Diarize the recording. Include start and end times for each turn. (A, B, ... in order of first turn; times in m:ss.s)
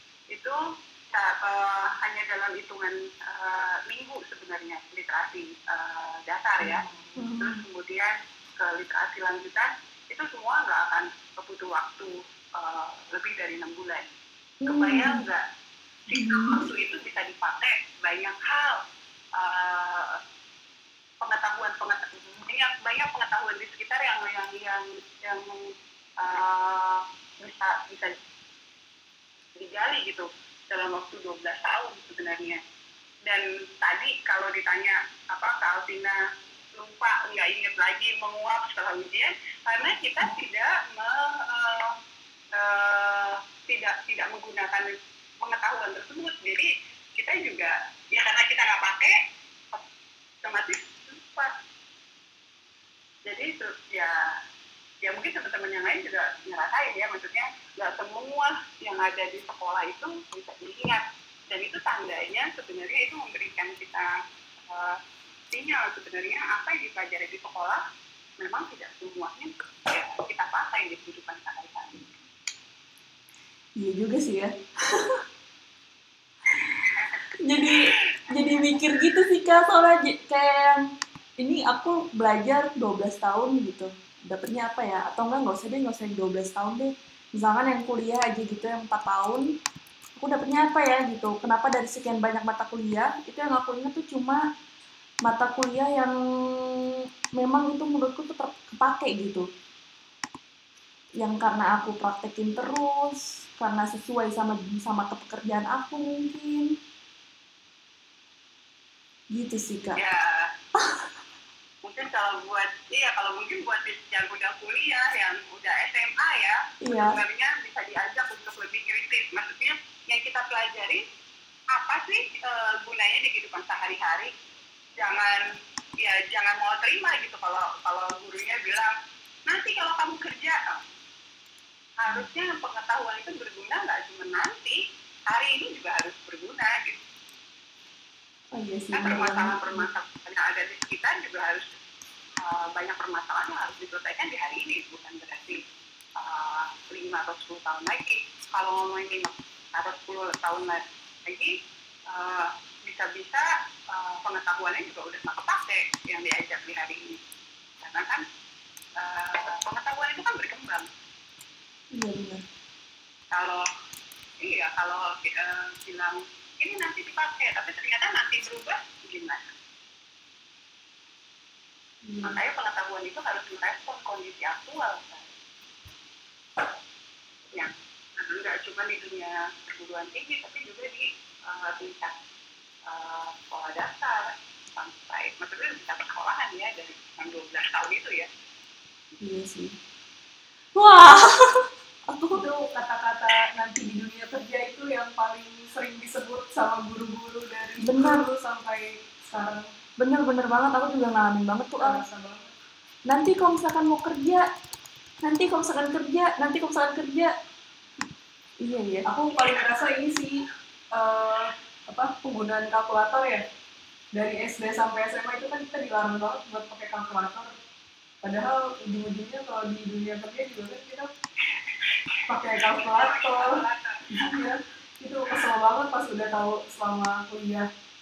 0:00.3-0:00.6 A
0:01.1-0:06.8 A
0:06.6-0:07.1 B
0:07.2-0:07.6 C
0:07.4-0:14.1 A
0:14.6-0:15.2 C
0:14.7-0:15.4 A
0:16.1-0:18.8 A
0:16.1-0:16.7 C
0:19.4-0:20.2 A
0:21.2-0:28.2 A
0:29.6-0:32.6 A
0:33.3-0:36.2 A
0:36.7-0:42.0 A
0:42.5-0:49.1 A
0:50.4-0:51.5 A
0:53.3-0:54.2 A
0:55.0-1:04.2 A
1:04.7-1:05.0 A
1:05.5-1:07.8 A
1:08.4-1:12.0 A
1:13.8-1:15.2 C
1:16.5-1:16.8 C
1:16.8-1:18.8 A
1:17.4-1:20.8 C
1:21.4-1:29.4 C
1:30.2-1:34.4 C
1:35.2-1:36.8 C
1:37.4-1:39.5 C
1:41.2-1:46.7 C
1:49.3-1:50.0 C
1:50.0-1:50.5 A
1:51.8-2:01.0 A
1:56.8-1:57.2 C
2:01.7-2:04.3 A
2:05.0-2:05.4 A
2:06.0-2:08.9 A
2:09.5-2:10.8 A
2:12.0-2:17.0 A
2:18.6-2:19.8 C
2:18.9-2:21.7 A
2:22.4-2:25.6 A
2:26.2-2:31.5 A
2:32.1-2:37.2 A
2:37.8-2:38.2 A
2:39.0-2:40.9 A
2:41.9-2:42.4 C
2:43.3-2:43.6 A
2:44.4-2:49.5 A
2:52.1-2:52.4 B
2:52.2-2:55.3 A
2:57.5-3:02.2 A
3:02.9-3:08.3 A
3:09.2-3:09.8 C
3:10.8-3:12.4 C
3:12.3-3:19.7 B
3:17.8-3:18.2 C
3:20.0-3:22.0 C
3:21.8-3:22.5 B
3:23.1-3:24.4 C
3:25.2-3:27.3 C
3:28.6-3:29.3 C
3:29.1-3:33.4 B
3:34.1-3:37.6 B
3:38.2-3:41.1 B
3:41.5-3:44.5 A
3:42.3-3:47.7 B